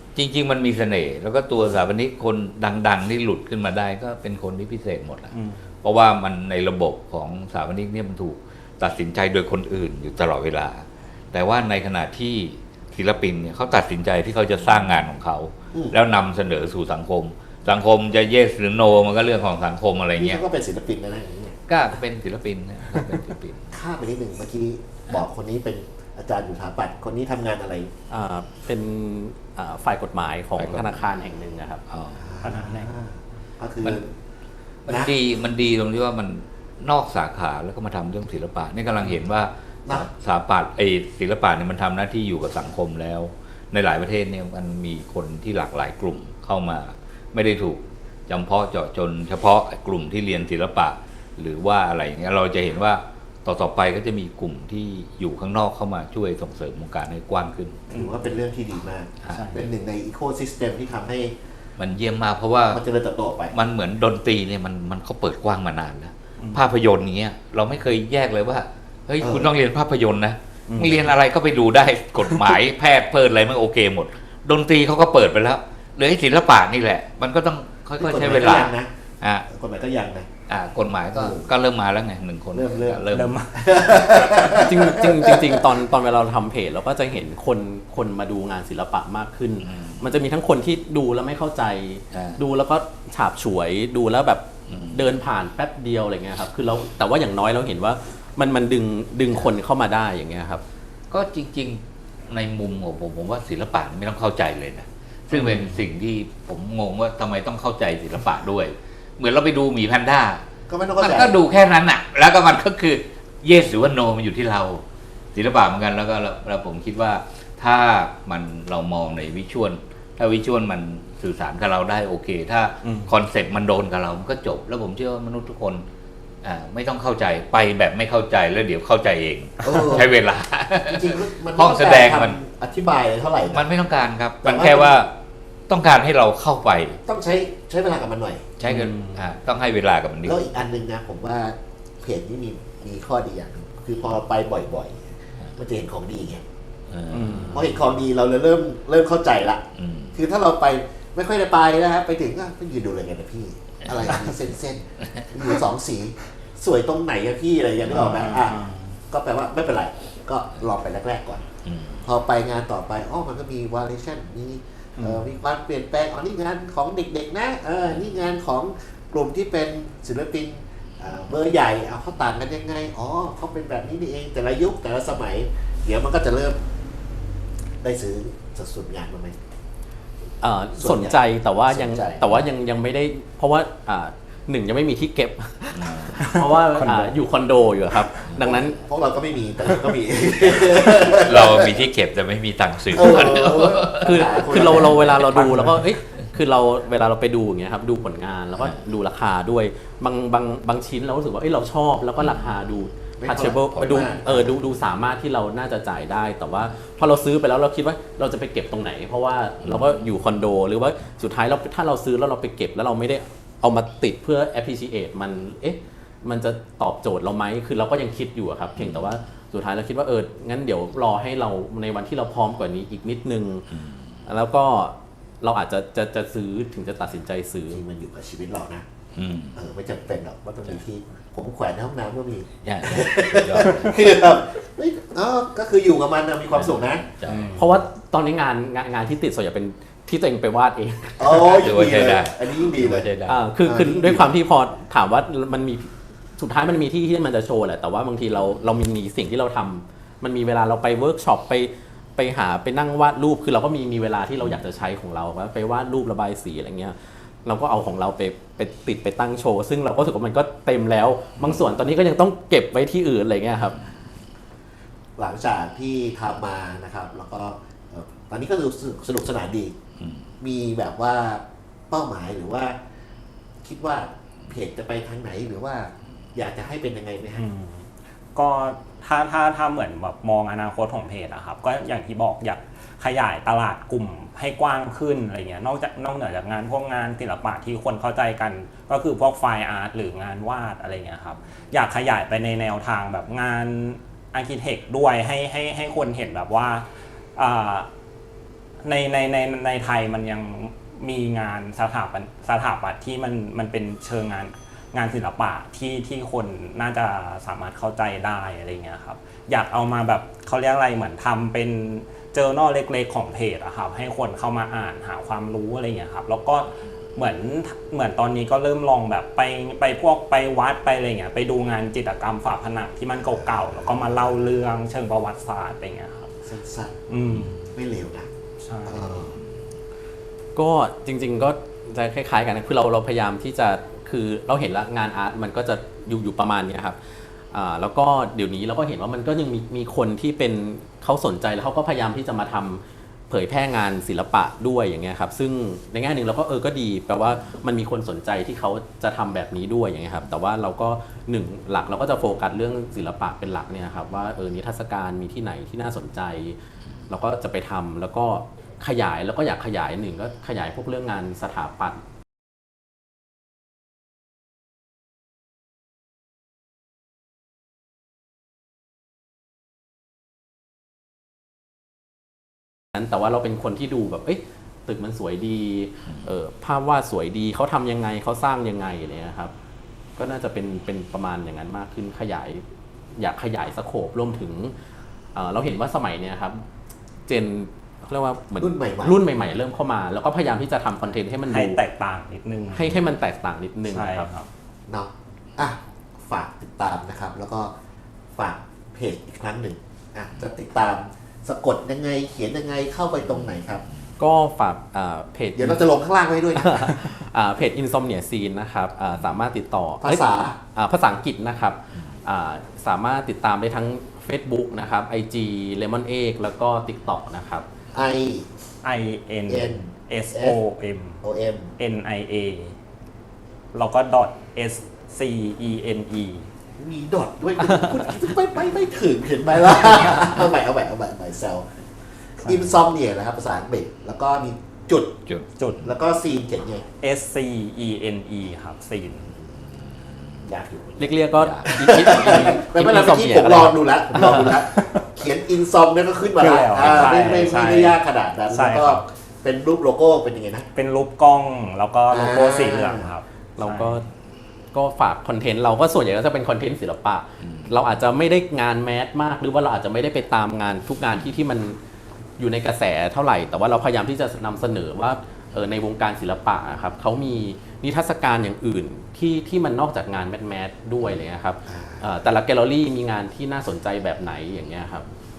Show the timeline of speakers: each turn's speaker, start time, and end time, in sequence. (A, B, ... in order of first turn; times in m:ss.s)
0:00.2-0:05.3 A
0:05.3-0:05.6 B
0:05.8-0:20.4 A
0:20.2-0:21.6 C
0:21.7-0:23.7 A
0:23.7-0:27.9 C
0:28.1-0:31.8 D
0:30.6-0:31.0 A
0:31.9-0:32.4 A
0:32.2-0:34.1 C
0:32.4-0:32.9 B
0:34.9-0:35.1 C
0:34.9-0:57.8 A
0:57.9-1:01.4 C
0:57.9-0:58.3 B
0:59.3-0:59.6 B
1:01.8-1:02.8 A
1:02.7-1:03.6 C
1:03.5-1:19.5 A
1:09.2-1:09.5 C
1:10.7-1:11.1 B
1:18.0-1:18.9 C
1:19.5-1:20.3 C
1:20.5-1:23.4 A
1:21.1-1:21.5 C
1:22.5-1:25.6 C
1:23.1-1:23.6 B
1:24.5-1:40.6 D
1:29.6-1:30.0 A
1:32.1-1:32.4 A
1:34.7-1:35.0 A
1:41.1-1:50.4 A
1:50.7-1:51.4 C
1:51.0-2:05.8 A
2:02.8-2:03.1 B
2:06.4-2:12.4 A
2:09.6-2:10.1 C
2:10.8-2:13.7 C
2:13.5-2:15.2 A
2:14.4-2:15.0 C
2:15.7-2:17.0 A
2:17.1-2:18.5 C
2:18.6-2:20.4 A
2:20.2-2:26.4 C
2:26.9-2:27.7 A
2:27.1-2:27.7 D
2:27.5-2:41.5 C
2:29.8-2:30.1 A
2:37.9-2:38.4 A
2:38.0-2:38.9 B
2:41.6-2:42.0 A
2:42.0-2:56.6 C
2:45.0-2:45.2 B
2:57.8-2:59.4 C
3:00.4-3:08.8 D
3:00.8-3:02.3 C
3:05.8-3:06.3 A
3:06.8-3:07.2 B
3:08.4-3:11.8 C
3:11.0-3:15.5 A
3:12.9-3:15.3 C
3:14.0-3:43.7 D
3:23.2-3:24.6 C
3:23.8-3:24.0 A
3:29.6-3:29.9 A
3:38.8-3:39.1 A
3:43.7-3:44.0 A
3:44.2-3:47.8 D
3:47.7-3:48.8 C
3:49.2-3:49.6 A
3:49.5-3:57.0 C
3:52.6-3:54.1 A
3:56.5-3:57.7 A
3:57.3-3:57.7 B
3:57.5-4:01.6 D
4:01.2-4:03.1 C
4:01.3-4:03.4 A
4:03.3-4:23.8 D
4:03.6-4:04.3 C
4:25.2-4:29.8 C
4:30.0-4:30.2 A
4:30.4-4:32.8 C
4:33.6-4:37.5 C
4:37.4-4:57.9 B
4:58.8-5:26.3 B
5:26.4-5:27.0 C
5:27.1-5:27.6 B
5:27.7-5:28.3 C
5:28.6-5:29.2 B
5:28.8-5:29.4 C
5:30.6-5:37.0 D
5:37.5-5:56.6 D
5:57.1-6:02.0 D
6:12.9-6:19.5 D
6:20.2-6:22.6 D
6:23.2-6:24.8 D
6:25.3-6:26.7 D
6:27.3-6:31.8 D
6:28.6-6:29.2 C
6:31.5-6:33.0 B
6:32.7-6:34.3 D
6:33.9-6:34.5 B
6:34.9-6:37.7 C
6:38.4-6:43.8 C
6:44.2-6:45.8 D
6:45.6-6:47.0 C
6:46.6-6:57.7 D
6:50.0-6:50.6 C
6:57.9-6:58.5 C
6:58.8-7:01.2 B
6:59.5-7:00.6 C
7:01.2-7:01.7 C
7:01.8-7:02.7 B
7:03.7-7:06.5 B
7:06.8-7:11.7 C
7:12.4-7:15.2 C
7:15.6-7:15.8 B
7:15.8-7:16.8 C
7:17.0-7:19.3 B
7:20.4-7:30.7 C
7:21.0-7:24.5 D
7:21.4-7:21.9 A
7:24.5-7:25.0 B
7:26.4-7:28.0 B
7:28.5-7:29.0 B
7:30.8-7:33.9 B
7:32.1-7:33.1 C
7:33.6-7:34.1 D
7:34.7-7:41.8 D
7:37.4-7:37.7 A
7:42.4-7:55.1 D
7:51.7-7:52.0 C